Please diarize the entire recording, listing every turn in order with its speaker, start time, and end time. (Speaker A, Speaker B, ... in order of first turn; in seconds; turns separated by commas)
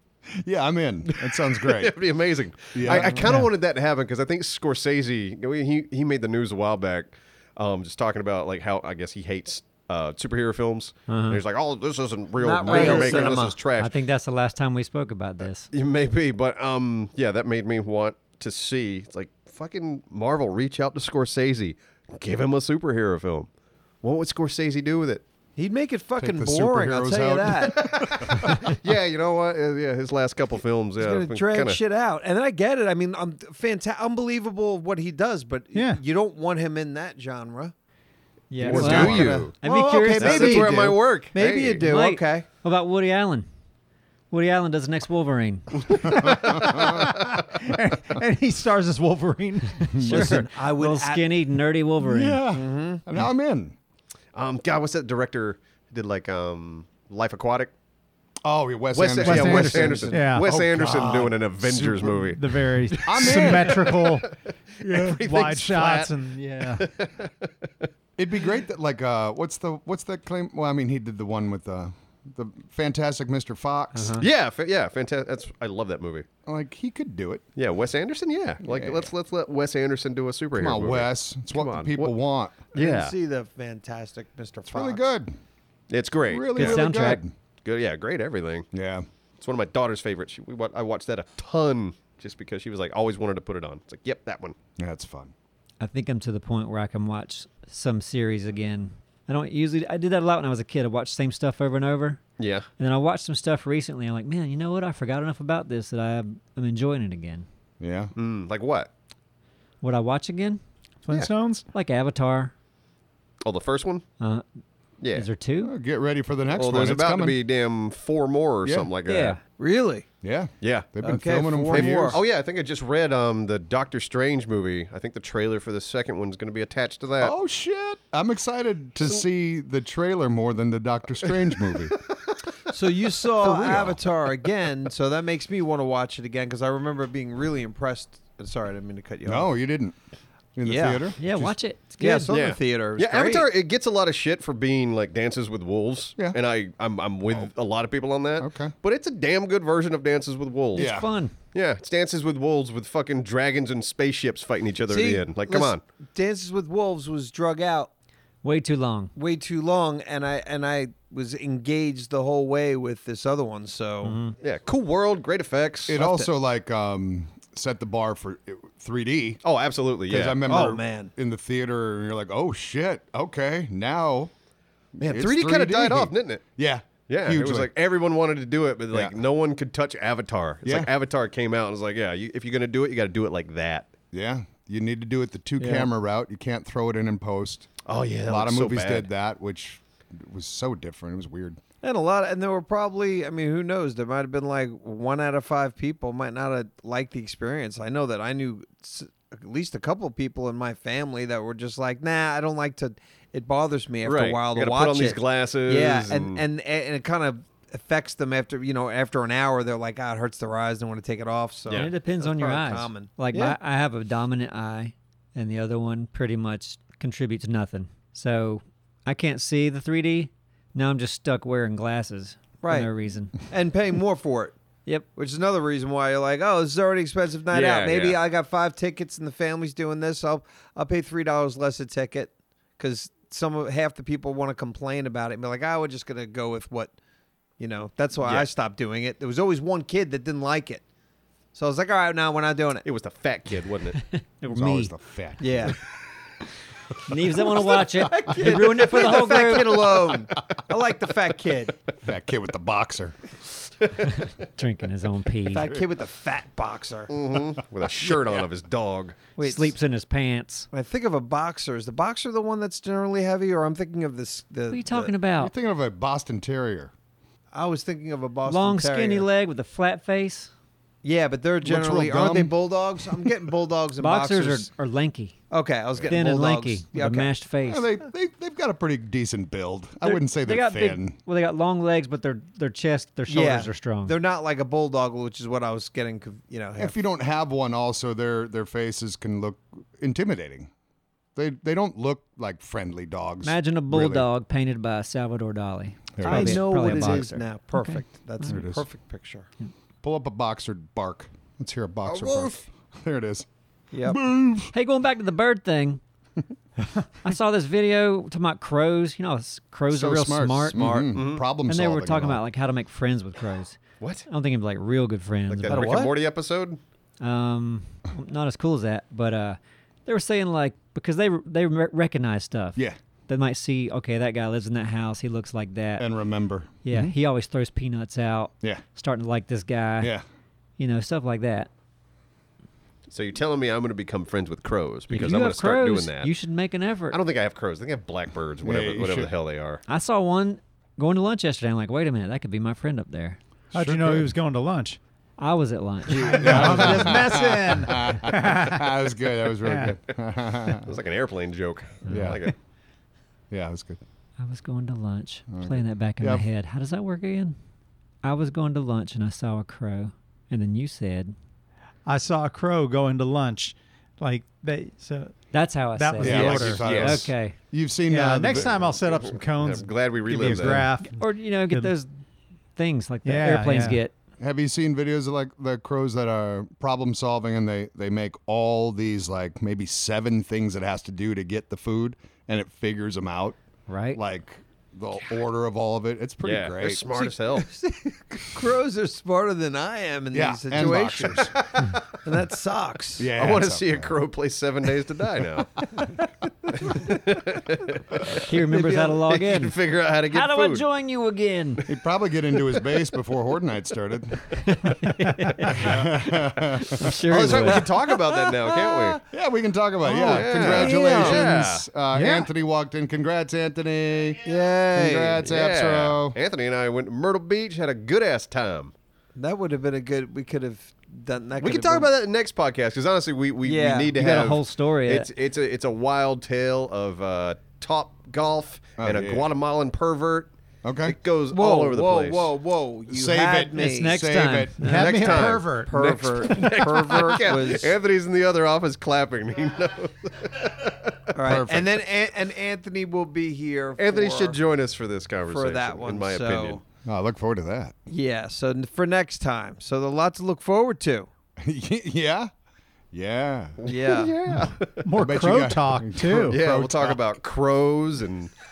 Speaker A: 0.3-2.0, Speaker B: 1.1-13.9, Speaker A: 2.7-3.4, Speaker C: 11.1-11.4, Speaker D: 12.4-13.6, Speaker A: 12.7-13.4, Speaker C: 13.8-15.7, Speaker B: 15.7-23.5, Speaker B: 24.0-25.2, Speaker D: 25.6-28.1, Speaker A: 26.2-28.8, Speaker B: 27.7-31.8, Speaker D: 31.0-37.7, Speaker E: 35.7-36.0, Speaker C: 38.5-40.9, Speaker A: 38.6-39.5, Speaker B: 38.6-39.5, Speaker D: 38.7-42.5, Speaker B: 40.1-41.9, Speaker C: 41.8-43.5, Speaker C: 44.3-46.3, Speaker E: 46.0-50.4, Speaker A: 46.0-47.1, Speaker C: 49.9-52.4, Speaker D: 50.0-51.4, Speaker A: 52.0-53.8, Speaker D: 52.5-53.0, Speaker B: 54.4-57.7, Speaker A: 58.4-62.2, Speaker B: 58.9-67.9, Speaker E: 59.2-60.5, Speaker D: 59.6-60.1, Speaker E: 62.3-64.3, Speaker A: 63.0-64.0, Speaker A: 64.8-65.2, Speaker E: 64.9-66.9, Speaker A: 68.2-74.2, Speaker C: 73.9-74.3, Speaker B: 74.2-76.3, Speaker A: 76.5-77.4, Speaker B: 77.6-82.1, Speaker A: 78.6-79.1, Speaker A: 80.5-82.6, Speaker B: 82.7-83.2, Speaker D: 82.8-85.0, Speaker A: 84.7-85.4, Speaker B: 85.9-87.1, Speaker A: 86.3-87.3, Speaker C: 86.6-87.2, Speaker B: 87.6-88.7, Speaker A: 88.7-89.1, Speaker B: 89.4-94.6, Speaker A: 94.8-95.3, Speaker C: 95.8-102.2, Speaker B: 102.4-102.7, Speaker C: 102.8-107.5, Speaker A: 107.8-108.1, Speaker B: 108.2-108.9, Speaker C: 109.8-110.6, Speaker E: 111.0-111.7, Speaker C: 111.7-112.5, Speaker B: 113.4-114.0, Speaker B: 115.0-115.3, Speaker C: 115.1-115.8, Speaker A: 115.6-117.4, Speaker B: 116.5-119.4, Speaker A: 118.7-118.9, Speaker C: 119.1-119.4, Speaker D: 119.6-120.1, Speaker A: 120.2-122.2, Speaker B: 120.6-120.9, Speaker D: 121.0-122.2, Speaker B: 121.7-127.3, Speaker A: 127.2-132.0, Speaker D: 132.7-139.5, Speaker A: 133.4-134.0, Speaker B: 133.5-133.9, Speaker A: 139.3-140.0, Speaker A: 140.6-141.6, Speaker D: 140.6-141.1, Speaker C: 141.2-142.3, Speaker D: 142.0-143.5, Speaker B: 142.3-150.9, Speaker A: 148.4-148.7, Speaker A: 150.8-151.1, Speaker C: 150.8-151.3, Speaker B: 151.5-155.8, Speaker D: 154.9-157.9, Speaker C: 158.4-159.1, Speaker D: 159.2-164.2, Speaker C: 164.0-164.3, Speaker B: 164.4-166.0, Speaker A: 165.9-169.4, Speaker D: 165.9-166.3, Speaker B: 169.4-170.6, Speaker A: 170.1-174.3, Speaker D: 170.5-171.1, Speaker A: 174.9-177.7, Speaker B: 175.0-176.4, Speaker B: 177.1-183.9, Speaker A: 178.9-179.2, Speaker A: 180.7-180.9, Speaker A: 184.1-187.7, Speaker D: 185.6-185.9, Speaker B: 187.8-189.1, Speaker A: 188.3-191.6, Speaker D: 191.8-213.6, Speaker B: 204.0-206.4, Speaker C: 211.7-223.4, Speaker D: 222.6-224.6, Speaker D: 225.2-236.9, Speaker B: 227.5-228.2, Speaker D: 237.6-240.8, Speaker B: 238.2-238.5, Speaker D: 241.5-242.9, Speaker B: 242.8-244.0, Speaker C: 244.1-244.9, Speaker A: 244.5-245.8, Speaker D: 245.4-245.8, Speaker C: 247.1-250.1, Speaker D: 247.5-251.8, Speaker A: 252.0-253.2, Speaker C: 254.0-255.7, Speaker D: 255.5-257.5, Speaker B: 257.1-259.2, Speaker D: 258.1-258.4, Speaker D: 259.4-259.7, Speaker C: 259.4-260.7, Speaker D: 260.7-265.1, Speaker C: 264.7-265.5, Speaker A: 265.4-266.9, Speaker D: 267.5-269.3, Speaker C: 268.5-270.5, Speaker D: 271.0-274.7, Speaker A: 271.6-272.6, Speaker C: 274.0-275.4, Speaker D: 275.5-277.3, Speaker C: 276.1-277.9, Speaker A: 277.7-281.2, Speaker C: 280.0-284.2, Speaker D: 283.3-287.0, Speaker A: 286.8-290.7, Speaker A: 291.4-294.3, Speaker C: 293.4-298.6, Speaker A: 296.1-297.3, Speaker D: 296.2-299.5, Speaker A: 298.5-298.9, Speaker A: 300.0-303.5, Speaker D: 302.3-302.5, Speaker D: 303.9-304.2, Speaker A: 304.0-304.7, Speaker C: 304.7-306.0, Speaker C: 307.2-311.1, Speaker A: 309.9-312.4, Speaker D: 310.8-311.2, Speaker B: 311.1-311.5, Speaker C: 311.6-315.9, Speaker B: 314.0-314.3, Speaker B: 315.5-316.8, Speaker D: 315.7-316.1, Speaker C: 317.2-326.1, Speaker A: 326.0-327.1, Speaker C: 326.8-330.1, Speaker C: 330.8-331.7, Speaker B: 333.1-336.3, Speaker C: 335.1-337.2, Speaker B: 337.1-339.8, Speaker A: 338.6-339.3, Speaker C: 339.9-343.4, Speaker A: 343.7-344.3, Speaker E: 343.7-345.0, Speaker C: 345.4-347.2, Speaker A: 346.1-350.9, Speaker E: 346.1-348.9, Speaker E: 349.6-350.0, Speaker B: 350.7-352.6, Speaker A: 352.1-352.5, Speaker A: 353.5-354.0, Speaker C: 354.4-357.6, Speaker A: 355.5-356.4, Speaker C: 358.2-361.3, Speaker E: 362.1-365.4, Speaker C: 365.5-367.6, Speaker E: 365.9-366.9, Speaker A: 366.2-369.0, Speaker B: 366.3-367.2, Speaker E: 368.1-371.9, Speaker B: 368.5-370.9, Speaker C: 371.1-372.1, Speaker C: 372.8-374.1, Speaker E: 373.2-374.0, Speaker A: 374.4-383.6, Speaker C: 383.9-384.2, Speaker A: 384.1-387.2, Speaker B: 386.4-387.7, Speaker D: 387.2-391.5, Speaker A: 390.3-391.6, Speaker B: 391.6-392.0, Speaker D: 392.2-393.3, Speaker A: 393.2-394.1, Speaker B: 393.3-395.9, Speaker B: 396.8-398.4, Speaker C: 398.4-399.8, Speaker D: 398.7-399.2, Speaker B: 399.3-400.8, Speaker C: 400.3-401.8, Speaker A: 401.9-404.6, Speaker C: 404.6-406.0, Speaker E: 405.2-405.9, Speaker A: 405.7-407.9, Speaker C: 406.9-407.9, Speaker B: 407.1-409.2, Speaker D: 408.6-409.2, Speaker A: 409.2-416.4, Speaker D: 410.1-411.6, Speaker B: 410.1-411.9, Speaker E: 412.1-412.5, Speaker D: 414.4-415.5, Speaker B: 415.4-418.9, Speaker D: 419.4-422.1, Speaker B: 421.6-430.5, Speaker D: 423.6-424.2, Speaker C: 424.1-425.3, Speaker A: 429.0-429.5, Speaker A: 430.8-431.2, Speaker B: 431.1-432.5, Speaker D: 431.5-434.2, Speaker A: 433.1-435.4, Speaker C: 433.7-435.2, Speaker E: 434.8-435.9, Speaker B: 434.9-441.3, Speaker D: 435.9-437.9, Speaker D: 441.4-444.6, Speaker A: 441.4-442.0, Speaker B: 444.0-446.8, Speaker D: 445.5-446.8, Speaker A: 447.0-447.9, Speaker D: 448.1-451.3, Speaker A: 451.6-452.5, Speaker A: 453.1-453.8, Speaker B: 453.8-455.1, Speaker D: 453.9-454.3, Speaker E: 455.0-456.6, Speaker A: 455.1-457.2, Speaker B: 456.5-458.5